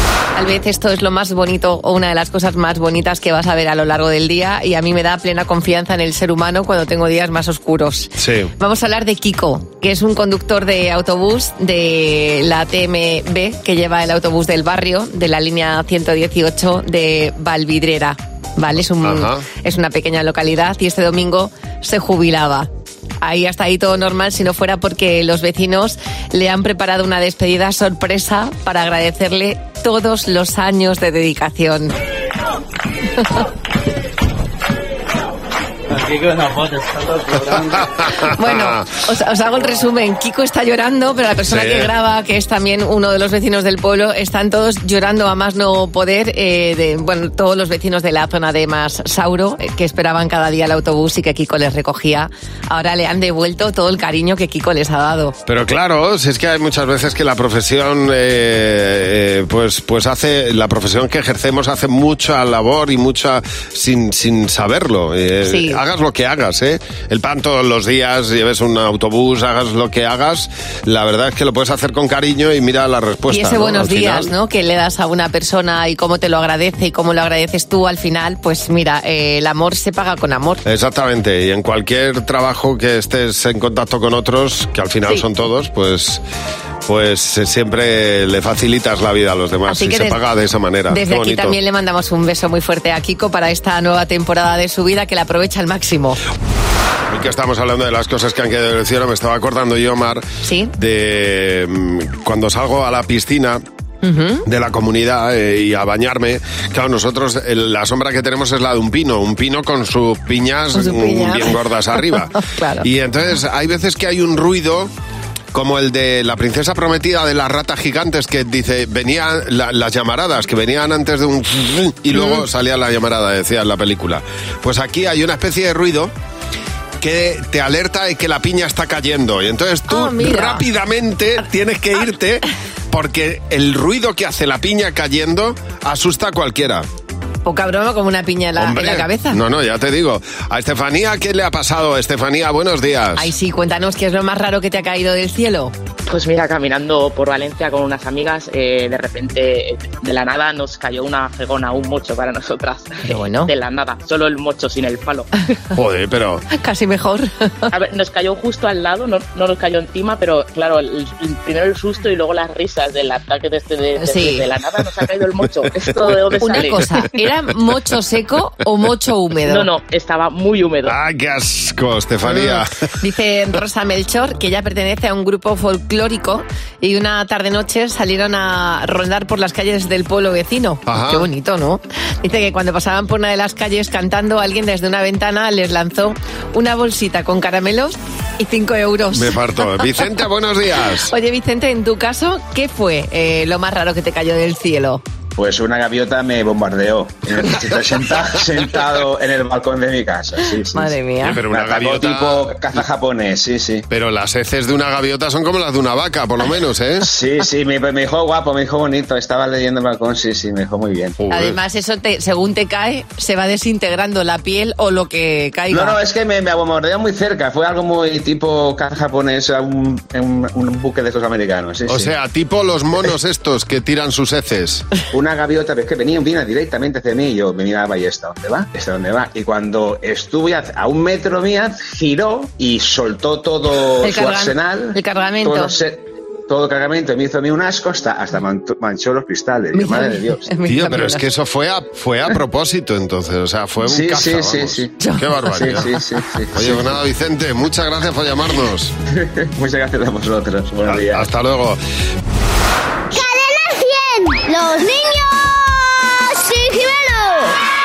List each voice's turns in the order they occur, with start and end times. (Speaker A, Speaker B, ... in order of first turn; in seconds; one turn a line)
Speaker A: 0.4-22.7
Speaker B: 8.2-8.5
Speaker B: 19.0-19.5
Speaker A: 23.2-31.9
Speaker B: 37.5-38.9
Speaker A: 38.4-55.4
Speaker B: 41.5-41.9
Speaker B: 55.5-74.3
Speaker A: 65.5-65.8
Speaker A: 73.3-80.6
Speaker B: 80.7-86.2
Speaker B: 86.9-91.6
Speaker A: 89.7-90.2
Speaker A: 90.9-96.2
Speaker B: 97.1-103.6
Speaker A: 100.4-100.7
Speaker A: 104.0-104.4
Speaker B: 104.5-114.9
Speaker A: 110.7-112.9
Speaker B: 115.5-126.1
Speaker A: 122.1-122.4
Speaker B: 127.0-136.9
Speaker A: 129.9-130.7
Speaker A: 137.4-139.4
Speaker B: 138.6-143.3
Speaker A: 143.2-145.7
Speaker C: 146.1-155.3
Speaker A: 153.0-153.5
Speaker B: 155.8-156.4
Speaker A: 156.5-157.7
Speaker C: 157.7-166.9
Speaker A: 164.0-164.5
Speaker A: 166.0-169.7
Speaker C: 169.5-171.0
Speaker B: 170.8-172.7
Speaker A: 172.3-189.8
Speaker B: 180.9-181.3
Speaker B: 189.1-191.1
Speaker A: 191.1-195.0
Speaker D: 195.4-201.0
Speaker A: 200.7-201.4
Speaker B: 201.2-202.8
Speaker D: 201.5-203.9
Speaker B: 203.9-207.1
Speaker D: 207.1-211.2
Speaker B: 211.2-211.6
Speaker A: 211.3-216.0
Speaker D: 215.7-222.1
Speaker B: 221.9-224.9
Speaker D: 225.1-240.5
Speaker A: 234.0-235.8
Speaker A: 239.7-241.2
Speaker B: 240.7-245.9
Speaker D: 243.9-245.0
Speaker A: 245.0-245.9
Speaker D: 245.6-246.8
Speaker B: 246.6-248.9
Speaker D: 249.5-251.3
Speaker B: 250.9-251.8
Speaker E: 253.1-257.6